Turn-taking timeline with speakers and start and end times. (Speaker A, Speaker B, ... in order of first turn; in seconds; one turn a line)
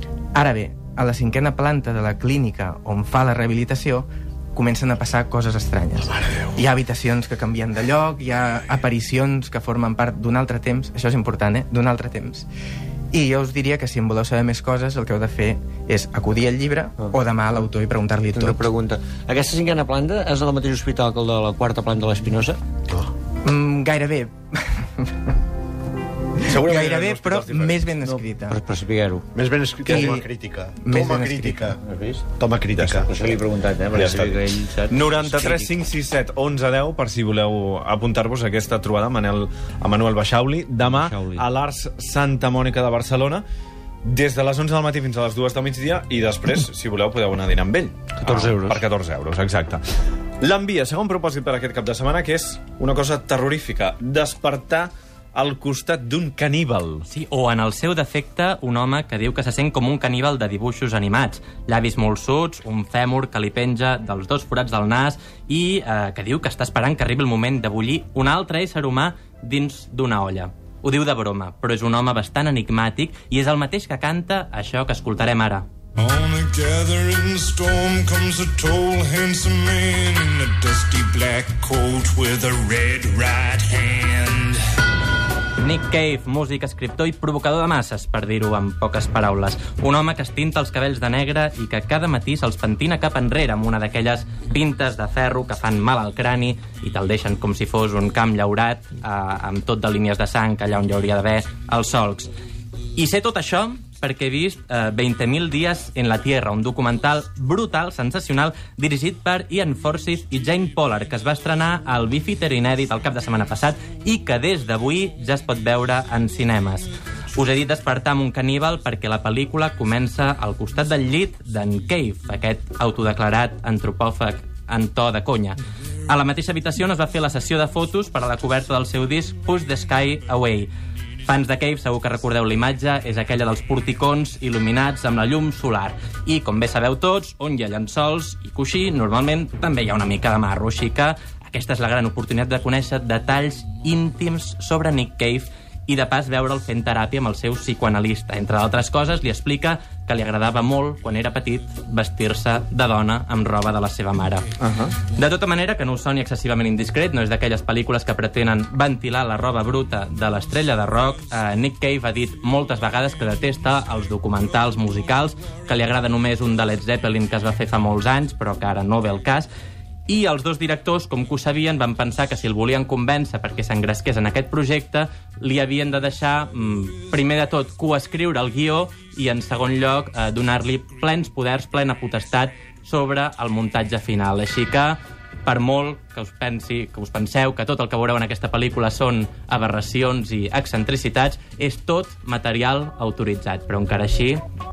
Speaker A: 0.3-12.5
Speaker A: 13.1-18.6
Speaker B: 18.3-22.6
Speaker A: 23.4-25.1
Speaker C: 26.4-27.9
Speaker A: 26.5-28.6
Speaker B: 28.1-29.2
Speaker D: 29.3-31.8
Speaker A: 29.9-30.2
Speaker A: 30.8-31.7
Speaker B: 31.9-32.2
Speaker D: 32.4-33.1
Speaker C: 32.8-33.1
Speaker B: 33.0-35.7
Speaker C: 33.9-43.4
Speaker B: 40.8-41.4
Speaker C: 44.0-49.8
Speaker B: 48.2-48.8
Speaker C: 50.4-57.0
Speaker E: 57.1-75.7
Speaker F: 76.0-84.6
Speaker E: 85.6-102.3
Speaker E: 103.0-130.7
Speaker E: 131.2-154.4
Speaker C: 154.6-154.9
Speaker E: 155.1-169.5
Speaker E: 170.1-194.4